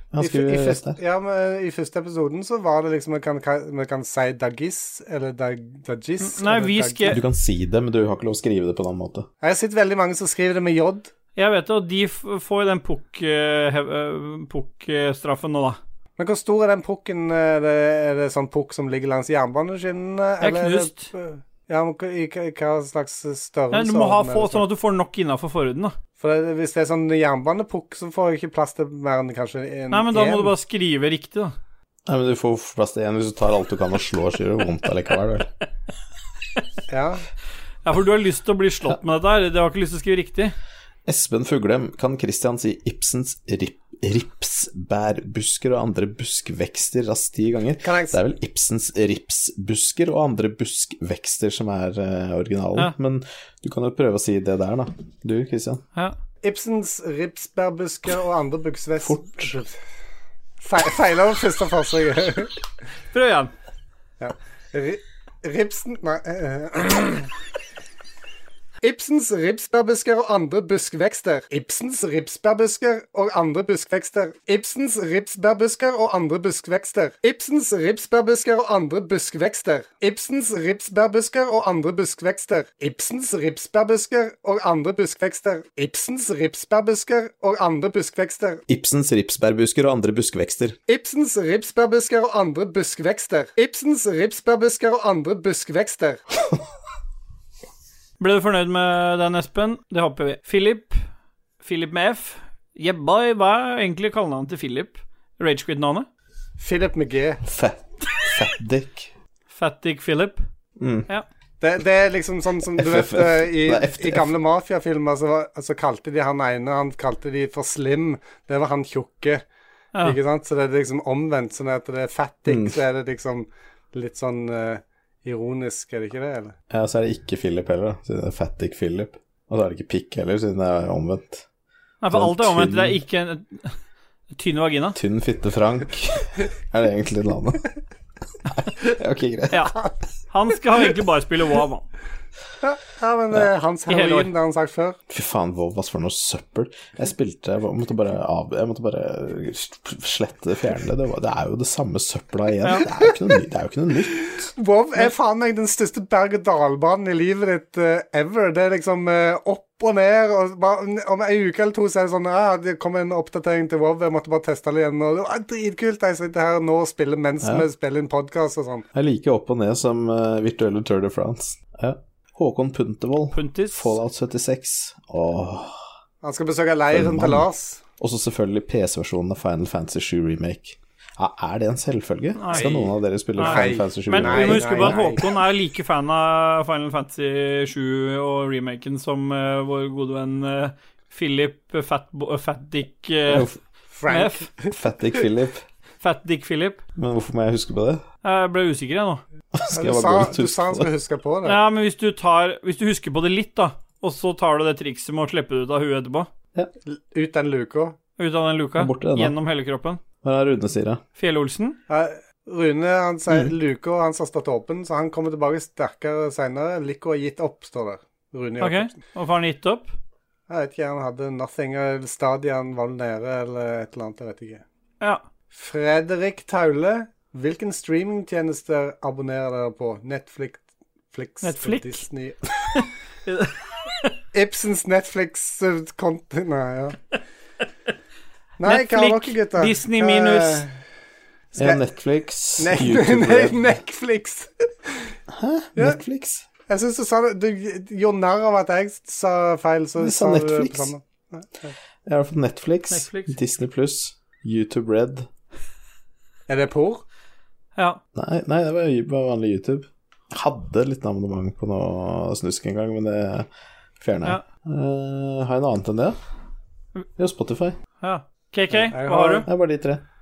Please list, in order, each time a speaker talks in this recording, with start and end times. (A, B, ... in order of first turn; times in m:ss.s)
0:00.1-0:01.0 A
0:00.2-0:07.2 B
0:06.2-0:07.2 C
0:07.1-0:09.3 A
0:09.4-0:11.1 B
0:11.4-0:15.8 C
0:16.2-0:24.6 B
0:20.4-0:21.1 C
0:23.7-0:26.0 C
0:26.2-0:30.5 B
0:29.9-0:31.6 C
0:32.1-0:35.5 A
0:36.9-0:37.2 B
0:37.8-0:40.6 C
0:41.1-0:55.8 A
0:47.8-0:48.2 B
0:56.4-0:59.8 B
0:59.0-0:59.5 A
1:00.6-1:02.5 B
1:03.1-1:03.5 C
1:04.2-1:07.3 B
1:08.8-1:28.6 B
1:28.7-1:30.8 A
1:30.9-1:36.2 B
1:38.2-1:41.0 C
1:41.6-1:46.1 C
1:46.6-1:47.4 B
1:47.4-1:49.1 A
1:49.5-1:50.4 C
1:50.8-1:51.1 A
1:51.6-1:59.4 B
1:52.7-1:54.3 A
2:00.0-2:06.6 B
2:02.5-2:02.8 A
2:06.7-2:11.5 A
2:12.0-2:13.8 C
2:12.1-2:13.0 A
2:14.3-2:15.0 C
2:14.9-2:17.7 A
2:18.5-2:19.7 A
2:20.3-2:21.9 C
2:22.6-2:25.0 B
2:23.9-2:24.3 C
2:25.1-2:34.4 A
2:34.2-2:48.9 B
2:48.9-2:55.8 A
2:53.3-2:54.0 C
2:56.2-2:57.8 B
2:56.9-2:57.5 A
2:58.0-3:05.1 A
3:02.4-3:13.5 C
3:03.4-3:05.2 B
3:13.3-3:13.6 A
3:13.9-3:14.7 B
3:14.1-3:14.5 C
3:14.7-3:15.6 A
3:16.0-3:16.8 C
3:17.0-3:18.0 A
3:18.2-3:19.2 C
3:19.5-3:20.9 A
3:19.7-3:21.6 B
3:21.4-3:26.3 C
3:26.9-3:28.0 B
3:28.2-3:30.0 C
3:28.8-3:29.4 A
3:30.2-3:31.0 A
3:31.2-3:31.8 C
3:31.9-3:38.9 B
3:38.6-3:39.9 C
3:40.5-3:44.6 B
3:45.5-3:52.4 B
3:51.4-3:52.0 C
3:52.8-3:54.1 C
3:54.3-3:57.0 B
3:58.6-4:00.8 B
3:58.6-4:00.6 C
4:01.6-4:01.8 B
4:01.6-4:03.7 A
4:02.6-4:05.2 B
4:05.3-4:06.5 A
4:06.7-4:11.7 B
4:10.0-4:10.9 A
4:12.1-4:15.3 A
4:12.9-4:13.3 C
4:16.5-4:17.0 B
4:17.8-4:18.0 C
4:18.2-4:23.5 A
4:24.0-4:26.2 A
4:27.2-4:27.8 A
4:28.0-4:29.5 C
4:28.7-4:29.5 B
4:29.5-4:30.0 A